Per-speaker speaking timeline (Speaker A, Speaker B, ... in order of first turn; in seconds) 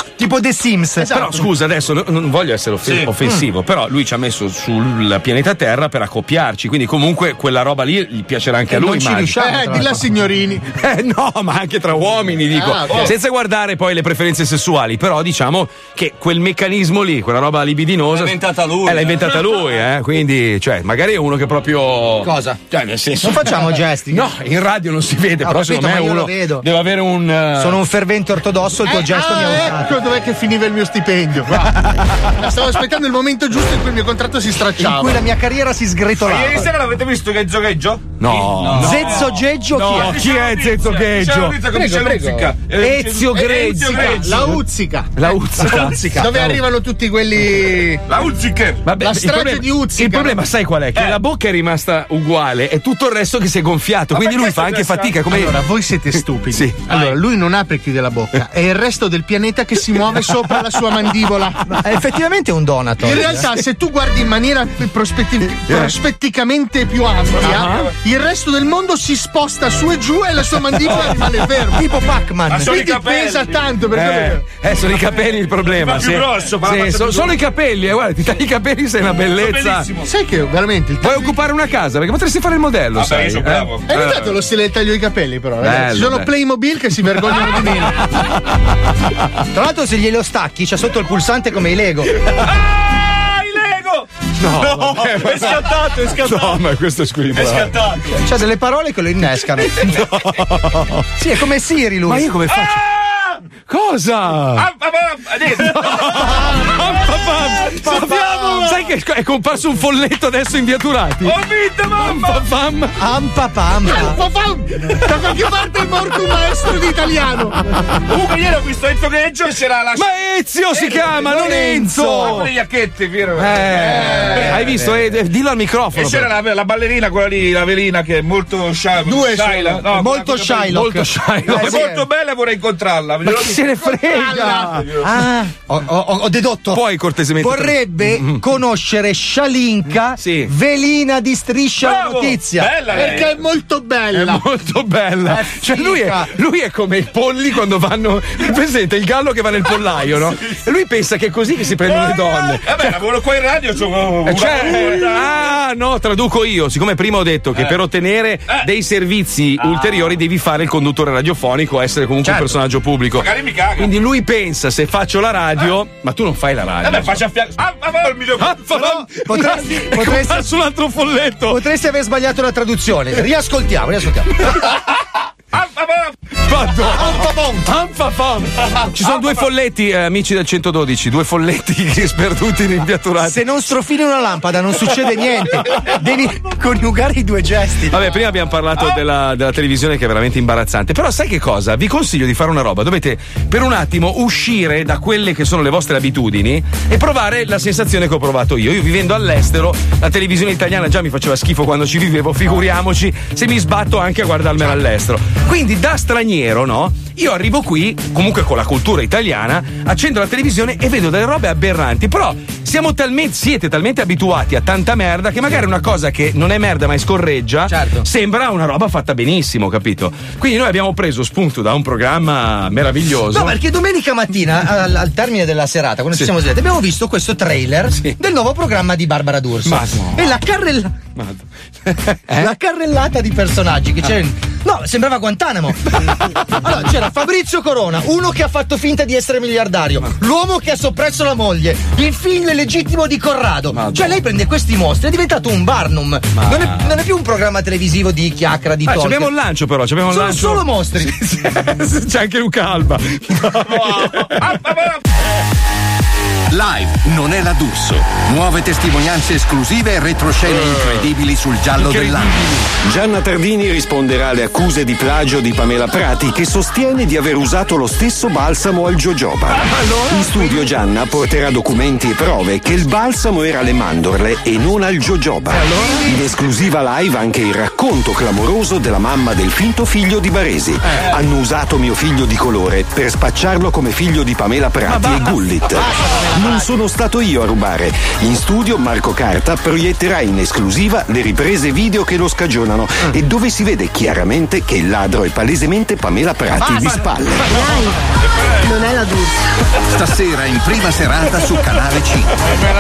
Speaker A: 0.2-1.4, 8.7-10.0, 22.2-22.6, 23.2-24.3, 25.4-26.6, 27.6-30.0, 34.8-36.7, 38.8-40.2, 42.8-43.4, 61.7-63.5, 71.7-72.9, 89.5-92.1, 98.1-100.0, 101.2-102.3, 106.3-106.6, 113.0-114.2, 121.1-122.4, 129.9-132.0, 133.8-136.8, 137.4-142.8, 145.2-146.3, 162.2-162.5, 168.7-170.5, 171.5-174.7, 176.9-177.7, 183.2-187.9, 217.7-218.1, 223.3-230.9, 232.3-249.3, 250.1-251.3, 275.5-276.2, 284.9-286.8, 296.6-297.9
Speaker B: 1.0-1.4, 9.4-10.7, 12.5-13.1, 28.9-35.2, 41.7-42.6, 43.6-48.0, 49.0-50.4, 55.2-61.6, 63.0-71.8, 72.6-74.4, 80.0-81.3, 83.9-88.0, 107.8-108.9, 113.9-117.6, 123.8-124.5, 129.1-129.8, 134.1-134.8, 142.9-144.4
Speaker C: 1.1-9.4, 10.8-27.8, 31.8-32.3, 38.2-41.7, 42.8-44.6, 45.1-46.6, 48.8-55.6, 56.5-57.1, 65.7-65.9, 67.4-67.9, 73.9-79.9, 81.0-84.1, 85.6-86.3, 87.2-88.4, 94.4-97.9, 99.7-101.0, 102.0-102.8, 103.7-104.7, 105.5-113.0, 119.9-122.5, 123.3-126.3, 130.6-131.9, 133.2-134.8, 136.7-138.4, 140.2-140.5, 144.1-153.0, 154.2-167.2, 168.4-171.6, 176.5-183.4, 187.9-223.6, 229.6-230.3, 231.2-232.5, 243.7-244.2, 246.3-246.9, 248.8-254.6, 260.5-261.1, 261.7-262.7, 269.6-270.6
Speaker D: 18.1-19.6, 36.2-44.5, 45.7-46.3, 48.1-48.9, 54.1-55.2, 67.4-67.7, 72.5-73.6, 74.8-77.3, 79.3-80.1, 82.9-84.2, 92.3-96.5, 97.3-98.2, 102.5-103.3, 104.5-106.4, 111.2-112.5, 118.1-120.1, 122.0-124.6, 125.9-130.7, 131.4-133.7, 134.8-135.0, 141.8-143.4, 151.8-155.3, 159.6-160.1, 163.2-163.9, 166.8-168.8, 175.5-176.1, 253.7-255.0
Speaker E: 257.1-257.6, 258.4-260.3, 260.9-262.0
Speaker F: 262.8-297.5